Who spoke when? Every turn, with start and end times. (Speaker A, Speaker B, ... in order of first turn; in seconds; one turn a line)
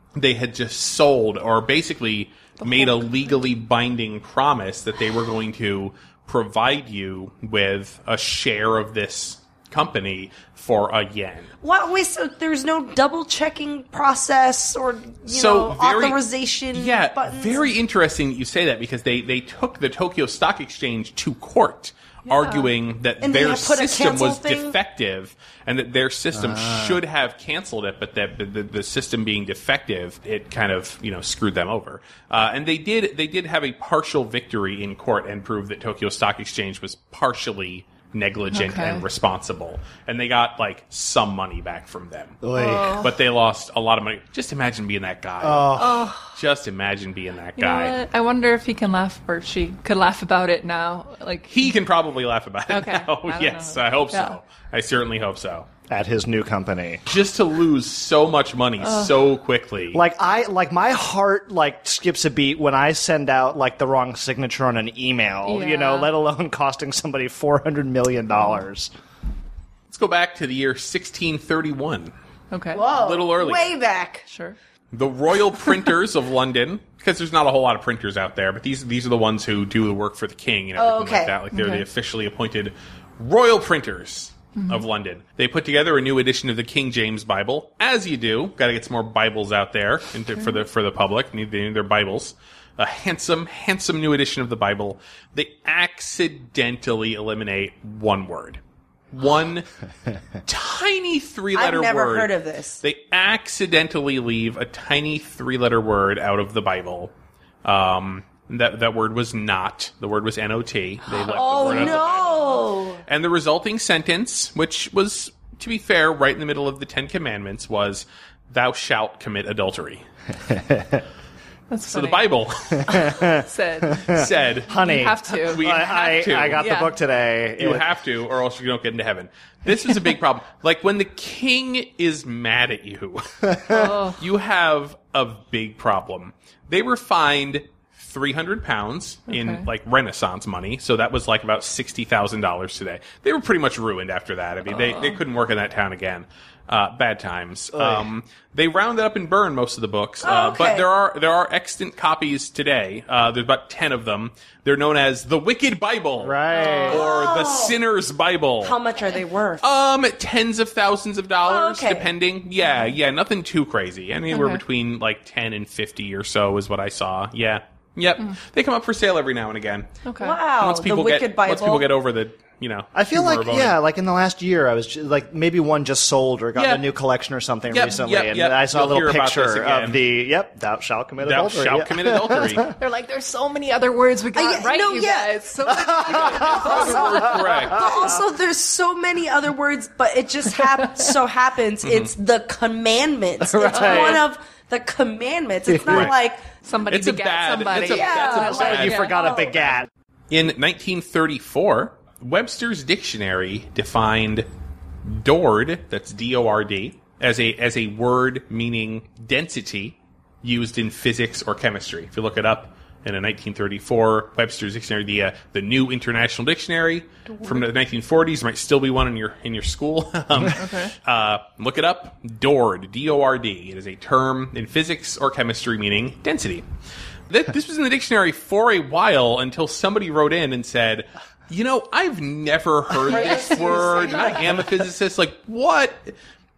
Speaker A: 0.1-11.5
Speaker B: 2.6-3.3
Speaker C: 11.6-17.7
Speaker A: 15.3-16.2
Speaker A: 16.7-42.4
Speaker B: 22.3-22.7
Speaker C: 23.2-24.8
Speaker D: 26.3-27.0
Speaker B: 38.5-39.0
Speaker D: 42.4-43.1
Speaker B: 42.5-43.1
Speaker A: 43.0-48.0
Speaker D: 45.4-46.1
Speaker B: 45.8-46.2
Speaker B: 47.6-51.8
Speaker A: 51.5-55.7
Speaker B: 52.7-54.4
Speaker D: 55.9-57.0
Speaker A: 57.1-60.0
Speaker B: 58.8-59.1
Speaker D: 59.9-68.9
Speaker B: 65.4-66.1
Speaker A: 69.9-72.1
Speaker B: 72.5-72.8
Speaker C: 72.7-74.2
Speaker A: 72.9-73.7
Speaker B: 74.3-74.6
Speaker A: 74.9-98.6
Speaker C: 80.8-81.3
Speaker B: 81.5-81.8
Speaker B: 84.6-84.8
Speaker A: 99.1-99.7
Speaker A: 100.4-107.1
Speaker C: 101.5-102.8
Speaker A: 107.6-120.0
Speaker C: 111.2-113.0
Speaker B: 111.5-112.0
Speaker D: 120.5-121.0
Speaker B: 121.7-122.3
Speaker A: 121.9-123.0
Speaker D: 122.8-127.9
Speaker B: 122.9-125.9
Speaker A: 124.1-124.7
Speaker A: 125.3-126.7
Speaker B: 126.5-127.0
Speaker A: 127.6-158.8
Speaker B: 129.7-130.2
Speaker D: 133.5-133.8
Speaker B: 133.7-134.2
Speaker B: 139.3-139.7
Speaker B: 144.7-145.2
Speaker D: 147.7-148.1
Speaker C: 150.2-150.9
Speaker D: 156.2-157.0
Speaker B: 156.6-156.9
Speaker C: 156.8-157.8
Speaker C: 158.6-159.6
Speaker A: 159.6-169.9
Speaker C: 161.4-162.1
Speaker B: 164.3-164.6
Speaker B: 170.0-170.4
Speaker C: 170.2-171.9
Speaker A: 170.6-173.8
Speaker D: 172.9-182.7
Speaker A: 177.7-180.0
Speaker A: 181.2-182.7
Speaker B: 182.8-187.8
Speaker C: 184.3-185.3
Speaker D: 185.7-188.1
Speaker C: 186.1-196.4
Speaker A: 186.8-187.8
Speaker A: 191.8-192.1
Speaker D: 193.4-194.2
Speaker B: 193.7-194.2
Speaker D: 195.7-196.1
Speaker B: 196.6-199.4
Speaker A: 196.9-199.1
Speaker C: 197.8-199.6
Speaker D: 198.5-199.9
Speaker A: 200.3-204.5
Speaker A: 205.0-226.7
Speaker B: 220.5-220.9
Speaker A: 227.3-236.2
Speaker B: 233.1-234.2
Speaker C: 233.1-234.5